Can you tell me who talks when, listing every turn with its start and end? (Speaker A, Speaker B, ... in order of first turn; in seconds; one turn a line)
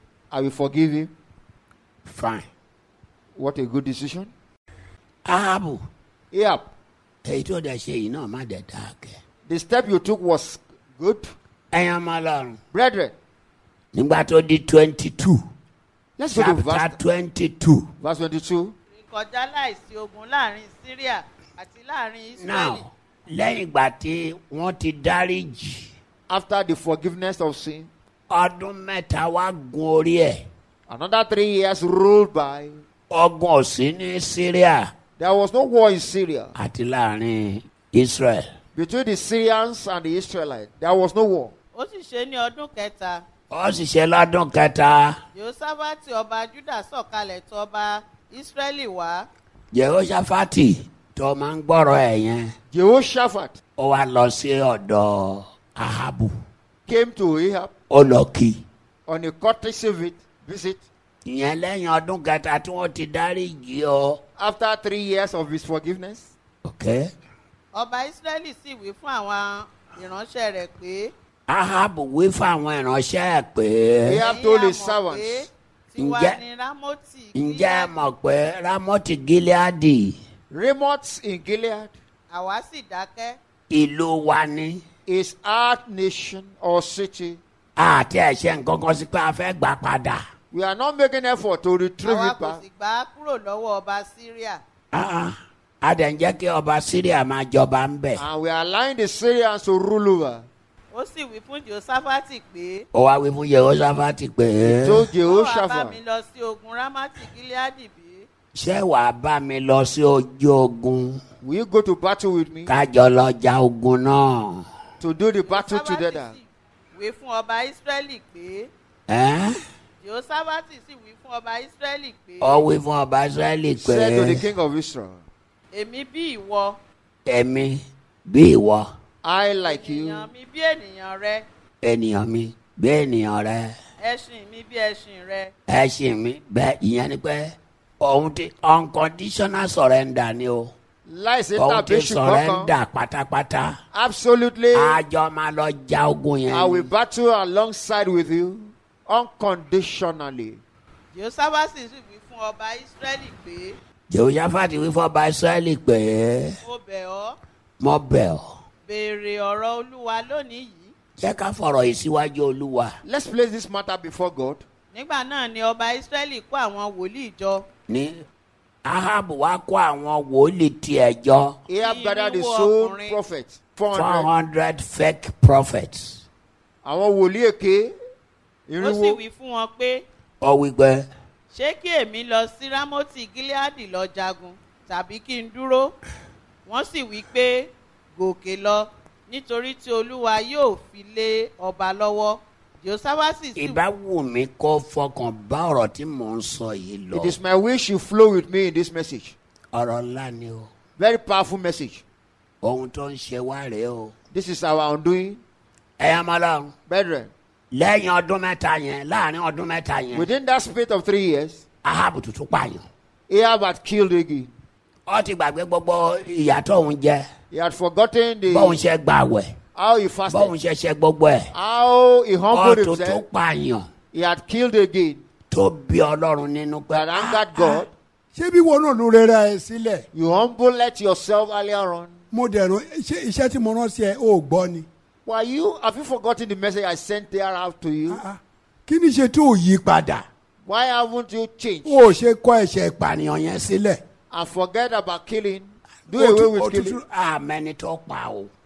Speaker A: 0.3-1.1
Speaker B: 2.0-2.5
Speaker A: 3.4-4.3
Speaker B: 5.3-5.8
Speaker A: 6.3-6.7
Speaker B: 7.2-9.2
Speaker A: 9.5-11.3
Speaker B: 11.7-12.6
Speaker A: 12.7-13.2
Speaker B: 13.9-15.4
Speaker A: 16.2-17.0
Speaker B: 16.3-17.9
Speaker A: 18.0-18.8
Speaker C: 19.0-22.9
Speaker B: 22.4-25.9
Speaker A: 26.3-27.9
Speaker B: 28.3-30.4
Speaker A: 30.9-32.8
Speaker B: 33.1-34.9
Speaker A: 35.2-36.5
Speaker B: 36.6-38.5
Speaker A: 38.8-41.5
Speaker C: 41.7-43.2
Speaker B: 43.5-45.2
Speaker C: 45.3-49.3
Speaker B: 49.7-52.5
Speaker A: 52.7-53.6
Speaker B: 53.8-56.3
Speaker A: 56.9-57.7
Speaker B: 57.9-58.6
Speaker A: 59.1-60.9
Speaker B: 61.3-64.2
Speaker A: 64.4-66.3
Speaker B: 66.7-67.1
Speaker C: 67.7-71.1
Speaker B: 71.5-74.2
Speaker A: 74.1-75.5
Speaker C: 74.2-78.1
Speaker B: 76.0-76.4
Speaker B: 77.3-80.2
Speaker A: 80.5-81.9
Speaker C: 82.3-83.4
Speaker B: 83.7-84.8
Speaker A: 85.1-87.4
Speaker B: 87.8-90.2
Speaker A: 90.5-92.6
Speaker C: 92.0-94.6
Speaker B: 94.9-98.2
Speaker A: 98.2-100.5
Speaker C: 100.9-102.9
Speaker B: 102.9-105.1
Speaker A: 104.6-106.0
Speaker C: 105.2-108.3
Speaker B: 108.5-111.2
Speaker A: 111.4-112.7
Speaker B: 112.7-114.7
Speaker A: 115.0-116.3
Speaker C: 115.5-118.7
Speaker B: 119.1-119.5
Speaker C: 120.0-122.7
Speaker B: 122.4-124.4
Speaker A: 123.8-125.2
Speaker C: 125.7-126.8
Speaker B: 127.3-128.9
Speaker A: 129.2-130.3
Speaker C: 129.6-131.5
Speaker B: 131.8-133.8
Speaker C: 134.0-135.5
Speaker B: 135.7-140.7
Speaker A: 141.1-142.7
Speaker B: 141.6-143.7
Speaker A: 143.9-145.0
Speaker B: 144.7-146.9
Speaker A: 146.5-150.6
Speaker C: 151.1-153.8
Speaker B: 154.1-156.6
Speaker C: 156.6-157.4
Speaker B: 157.8-158.6
Speaker C: 158.9-160.9
Speaker B: 161.2-163.0
Speaker A: 163.0-164.6
Speaker C: 164.9-167.7
Speaker B: 167.9-168.2
Speaker B: 168.8-171.6
Speaker A: 171.7-174.3
Speaker C: 171.8-173.2
Speaker B: 173.9-176.2
Speaker A: 176.8-177.9
Speaker A: 178.7-179.2
Speaker C: 178.8-180.1
Speaker B: 180.4-181.1
Speaker C: 181.5-185.9
Speaker C: 186.7-193.8
Speaker B: 193.6-197.4
Speaker A: 197.1-199.3
Speaker B: 199.7-200.7
Speaker A: 201.0-202.0
Speaker B: 202.6-204.1
Speaker A: 204.3-205.4
Speaker B: 206.0-206.7
Speaker A: 206.9-207.3
Speaker B: 207.7-210.3
Speaker A: 210.1-211.6
Speaker B: 211.8-212.8
Speaker A: 213.3-214.5
Speaker B: 215.1-217.3
Speaker A: 217.5-218.8
Speaker B: 218.5-219.5
Speaker A: 219.8-220.5
Speaker B: 220.3-221.5
Speaker A: 221.5-223.3
Speaker B: 222.5-223.9
Speaker A: 224.1-225.2
Speaker B: 225.5-227.8
Speaker A: 226.9-227.9
Speaker D: 228.3-230.0
Speaker A: 230.1-232.2
Speaker D: 232.3-234.9
Speaker A: 235.3-238.2
Speaker D: 238.1-240.2
Speaker B: 239.8-240.2
Speaker A: 240.7-242.1
Speaker D: 241.8-243.0
Speaker B: 242.8-244.0
Speaker A: 244.3-247.0
Speaker B: 246.1-248.5
Speaker D: 246.2-247.0